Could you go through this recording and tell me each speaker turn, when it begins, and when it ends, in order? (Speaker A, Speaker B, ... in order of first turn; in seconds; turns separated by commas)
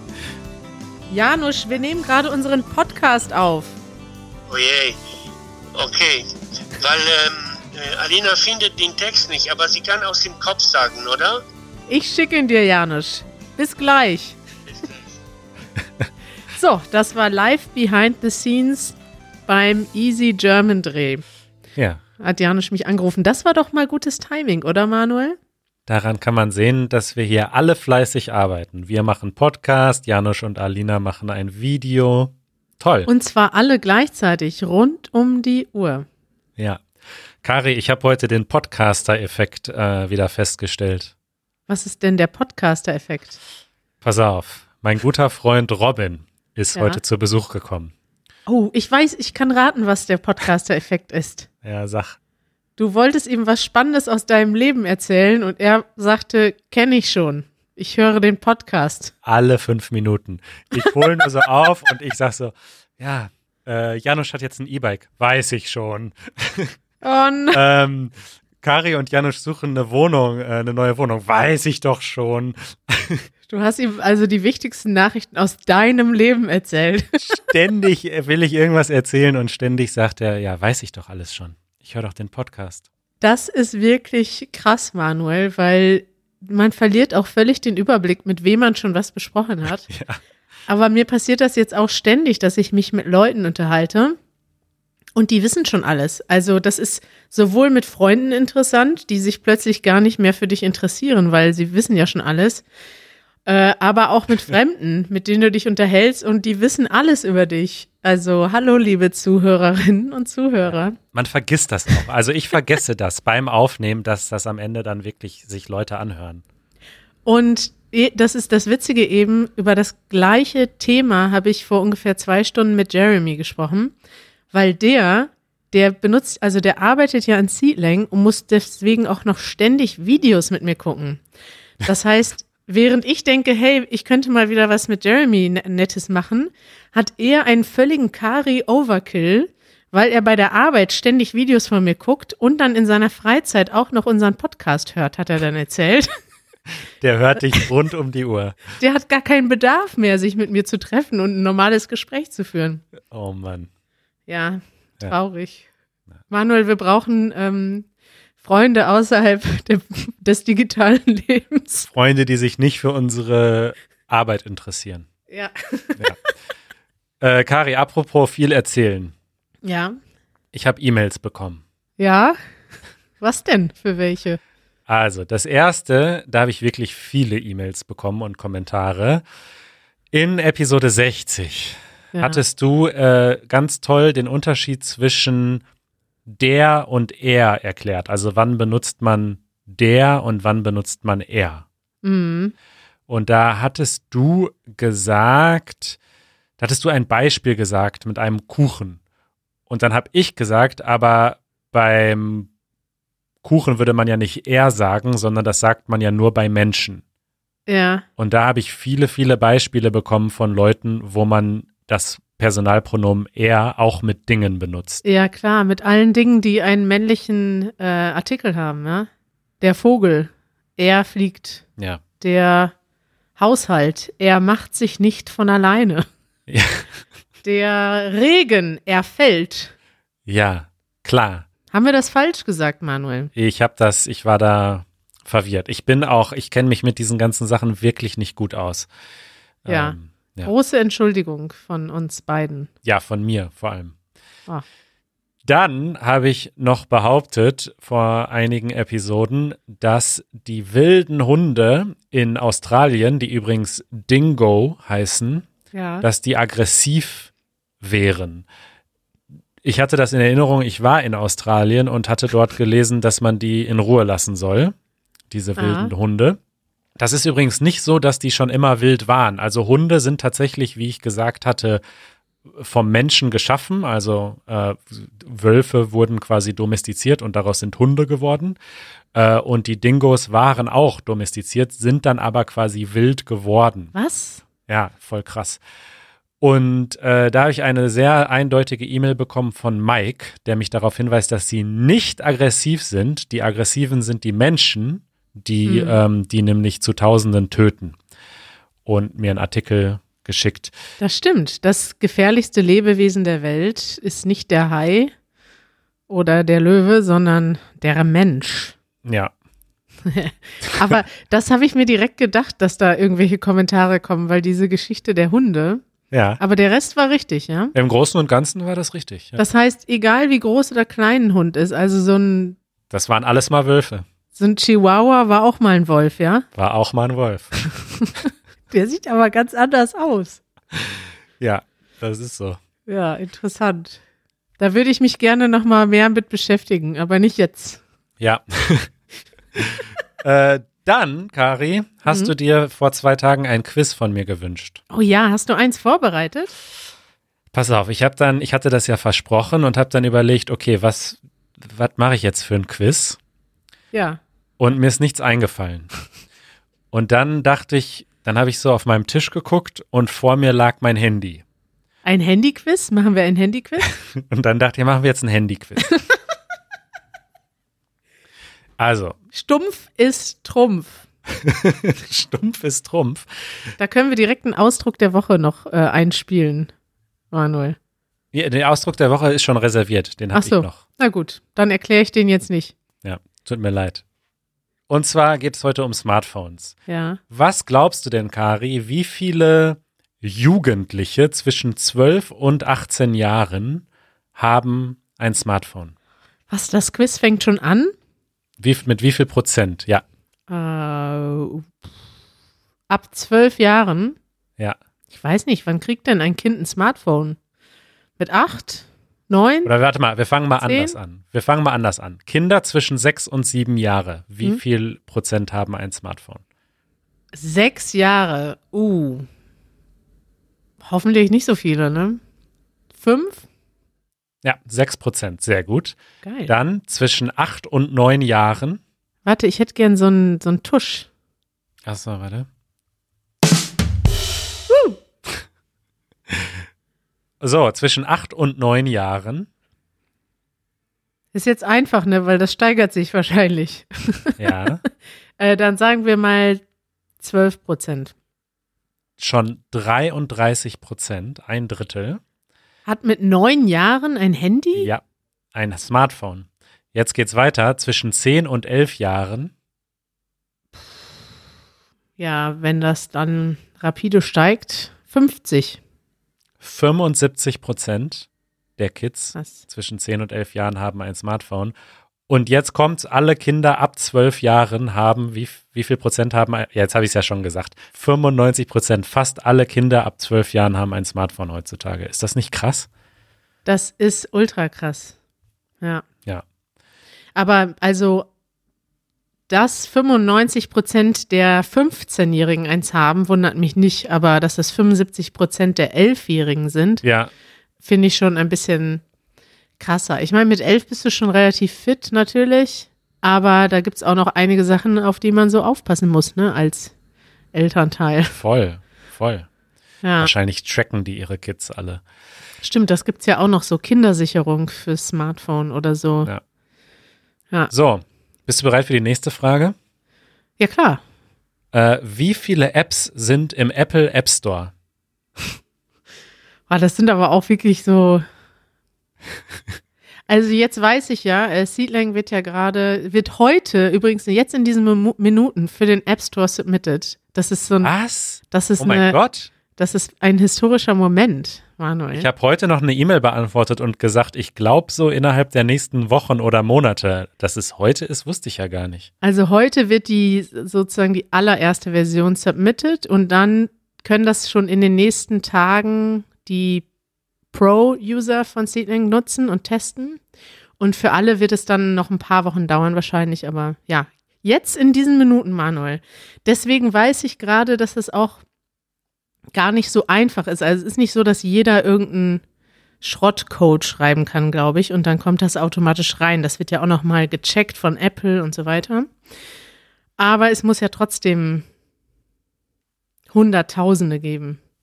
Speaker A: 1.1-3.8, Speaker B: 4.5-5.0, Speaker B: 5.7-11.4, Speaker A: 11.9-14.4, Speaker B: 14.7-15.0, Speaker A: 16.5-18.9, Speaker A: 19.5-21.2, Speaker C: 21.8-22.0, Speaker A: 22.2-25.4, Speaker C: 25.9-33.1, Speaker A: 33.1-36.0, Speaker C: 36.6-36.8, Speaker C: 37.4-41.1, Speaker A: 41.7-43.4, Speaker C: 44.0-47.9, Speaker A: 46.7-47.0, Speaker A: 48.5-51.5, Speaker C: 51.6-52.2, Speaker A: 52.8-59.1, Speaker C: 59.2-66.7, Speaker A: 67.0-67.6, Speaker C: 67.5-73.3, Speaker A: 73.5-77.4, Speaker C: 77.2-82.8, Speaker A: 83.2-89.9, Speaker C: 89.9-90.2, Speaker A: 90.7-94.2, Speaker A: 95.2-102.6, Speaker A: 103.5-111.0, Speaker C: 110.7-116.4, Speaker A: 117.2-123.9, Speaker A: 124.5-131.2, Speaker A: 131.8-146.1, Speaker C: 147.0-148.6, Speaker A: 148.8-152.8, Speaker C: 153.1-153.7, Speaker A: 154.3-155.6, Speaker A: 156.3-157.8, Speaker A: 158.4-161.9, Speaker C: 161.9-165.1, Speaker A: 165.3-166.0, Speaker C: 167.2-169.1, Speaker A: 169.6-170.0, Speaker C: 170.5-171.6, Speaker A: 172.0-172.4, Speaker A: 173.2-174.4, Speaker C: 174.9-179.2, Speaker C: 180.1-185.6, Speaker A: 182.1-182.4, Speaker C: 186.3-191.7, Speaker A: 192.0-192.5, Speaker C: 193.1-196.0, Speaker C: 196.6-199.0, Speaker C: 199.7-202.5, Speaker C: 203.4-207.0, Speaker A: 207.7-208.0, Speaker C: 208.2-215.0, Speaker A: 215.0-219.1, Speaker A: 219.6-221.6, Speaker A: 222.2-222.7, Speaker A: 223.4-226.1, Speaker C: 226.5-226.9, Speaker A: 227.4-229.7, Speaker C: 230.2-231.4, Speaker A: 231.7-233.3, Speaker C: 233.3-238.9, Speaker C: 239.6-240.5, Speaker A: 239.7-242.7, Speaker C: 242.8-243.9, Speaker C: 245.4-255.5, Speaker A: 255.7-256.1, Speaker C: 256.0-257.3, Speaker C: 257.8-258.4, Speaker C: 259.6-264.7, Speaker C: 265.3-266.4, Speaker A: 265.6-265.9, Speaker C: 267.0-271.8, Speaker C: 272.5-278.6, Speaker C: 279.1-283.9, Speaker A: 283.9-284.4, Speaker C: 284.7-285.6, Speaker C: 286.4-297.9, Speaker A: 295.6-296.0, Speaker C: 298.8-300.7, Speaker A: 301.0-305.1, Speaker A: 306.1-308.7, Speaker C: 309.0-309.3, Speaker A: 310.1-315.8, Speaker C: 316.1-316.4, Speaker A: 316.4-317.7, Speaker C: 317.7-319.4, Speaker A: 319.4-322.6, Speaker C: 322.9-324.1, Speaker A: 324.3-326.5, Speaker C: 326.5-327.5, Speaker A: 327.8-330.4, Speaker C: 330.8-332.6, Speaker A: 332.9-334.0, Speaker A: 334.6-337.8, Speaker C: 338.2-338.9, Speaker C: 339.6-344.8, Speaker A: 342.1-342.3, Speaker A: 344.9-346.5, Speaker C: 347.5-353.2, Speaker A: 353.9-354.2, Speaker C: 354.6-355.9, Speaker C: 356.9-361.4, Speaker A: 362.0-363.9, Speaker C: 363.9-365.9, Speaker C: 368.8-369.2, Speaker A: 369.3-371.0, Speaker C: 371.3-373.3, Speaker A: 373.8-376.7, Speaker A: 377.3-377.8, Speaker C: 378.3-380.8, Speaker A: 380.3-382.7, Speaker C: 383.0-384.0, Speaker C: 384.9-386.8, Speaker A: 386.9-387.2, Speaker C: 387.3-395.9, Speaker A: 396.5-397.9, Speaker C: 398.6-400.0, Speaker A: 400.5-401.7, Speaker A: 402.9-404.1, Speaker A: 405.1-407.4, Speaker A: 408.2-409.7, Speaker C: 409.6-416.4, Speaker A: 410.6-410.9, Speaker A: 417.3-419.3, Speaker A: 420.8-422.2, Speaker A: 422.9-423.4, Speaker C: 424.4-428.8, Speaker A: 426.2-426.5, Speaker A: 429.2-431.1, Speaker C: 431.9-432.5, Speaker A: 434.7-435.0, Speaker C: 436.3-436.6, Speaker C: 437.4-439.5, Speaker A: 441.3-444.4, Speaker C: 444.4-444.8, Speaker A: 445.4-446.6, Speaker A: 447.2-448.1, Speaker C: 449.2-452.2, Speaker A: 452.9-454.9, Speaker C: 454.8-455.0, Speaker C: 455.5-459.5, Speaker A: 462.2-465.8, Speaker C: 466.6-468.3, Speaker C: 468.8-471.7, Speaker A: 469.3-469.6, Speaker C: 472.3-482.9, Speaker A: 483.6-485.1, Speaker A: 487.4-488.3, Speaker A: 489.5-497.0, Speaker C: 497.0-497.3, Speaker A: 497.8-499.0, Speaker A: 499.8-506.9, Speaker A: 507.5-508.3, Speaker C: 508.3-509.5, Speaker A: 510.0-510.3, Speaker C: 510.2-512.0, Speaker A: 512.6-516.3, Speaker C: 517.7-519.8, Speaker A: 520.6-521.0, Speaker C: 521.7-524.7, Speaker A: 526.7-528.2, Speaker A: 530.3-537.9, Speaker C: 537.8-539.5, Speaker A: 538.5-539.2, Speaker A: 539.7-542.3, Speaker C: 542.1-549.1, Speaker A: 549.2-556.9, Speaker A: 557.5-560.2, Speaker A: 560.8-568.4, Speaker A: 569.5-572.4, Speaker A: 573.0-579.1, Speaker A: 580.2-581.6, Speaker A: 583.3-584.6